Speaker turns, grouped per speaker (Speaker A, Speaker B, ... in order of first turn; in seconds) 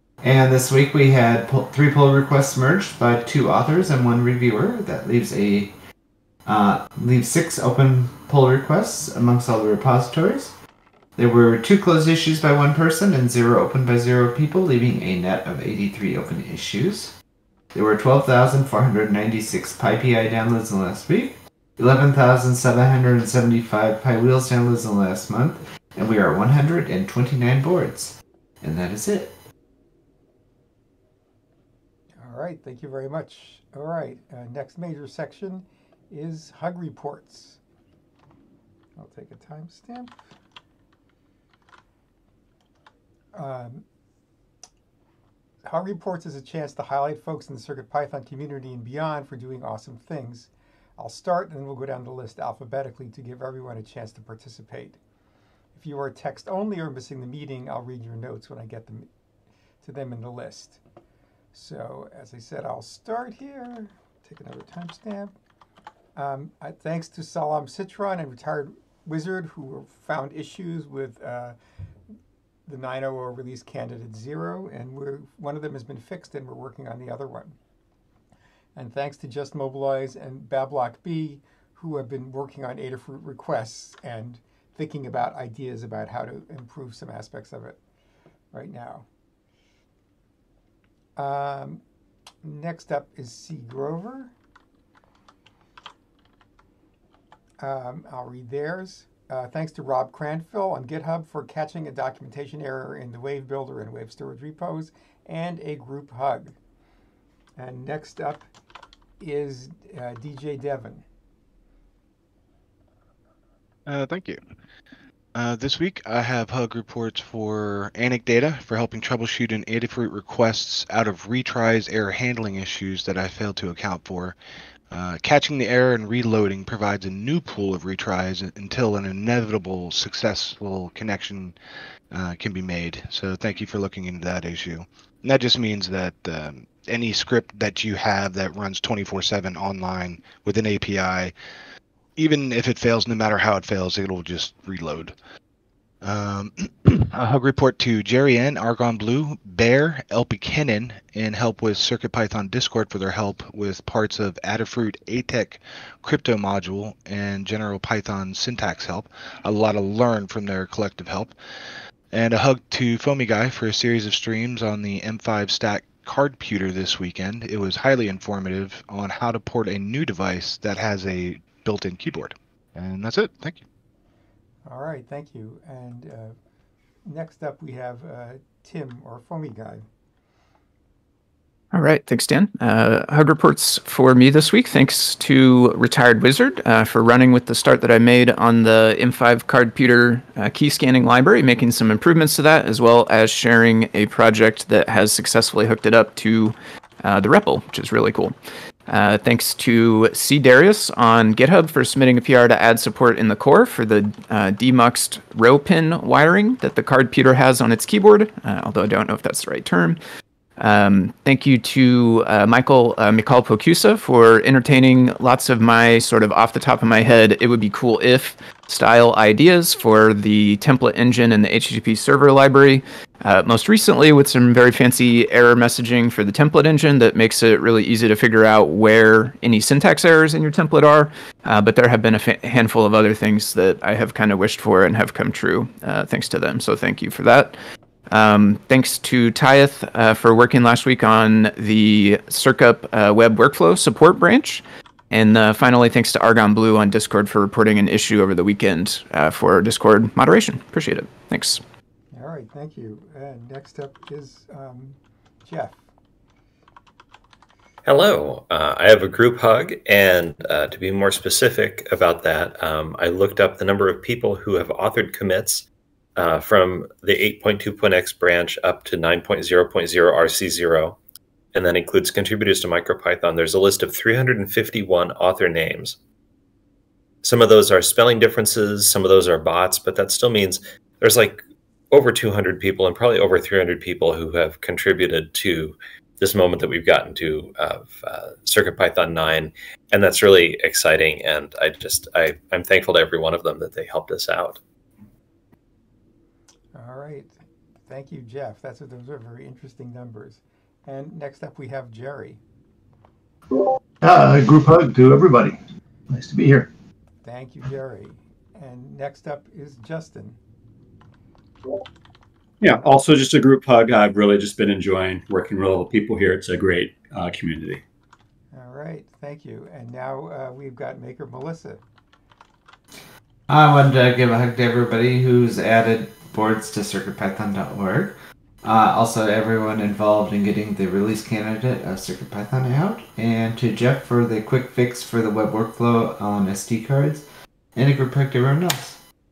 Speaker A: 0.2-5.7, 6.5-10.6, 11.2-17.1, 17.7-29.4, 323.5-339.0
Speaker B: 32.2-37.6, 39.0-40.1, 43.3-43.8, 45.6-55.0, 55.7-59.1, 59.8-60.8, 61.5-65.3, 66.2-71.5, 72.7-77.5, 78.8-87.8, 88.5-89.0, 91.2-91.8, 92.4-94.3, 97.6-106.5, 107.6-108.5, 109.2-111.0, 174.7-176.3, 177.0-179.9, 252.1-255.8, 296.7-297.3, 297.9-302.4, 307.2-310.4, 318.5-321.8
Speaker C: 113.8-114.4, 115.3-124.3, 124.9-131.6, 132.1-141.3, 142.2-145.2, 146.0-161.3, 162.1-173.6
Speaker D: 181.7-198.3, 198.9-210.0, 210.6-237.6, 238.1-251.6
Speaker E: 257.9-265.6, 266.2-271.0, 271.5-276.0, 277.2-294.6
Speaker F: 303.6-306.7
Speaker G: 312.6-317.8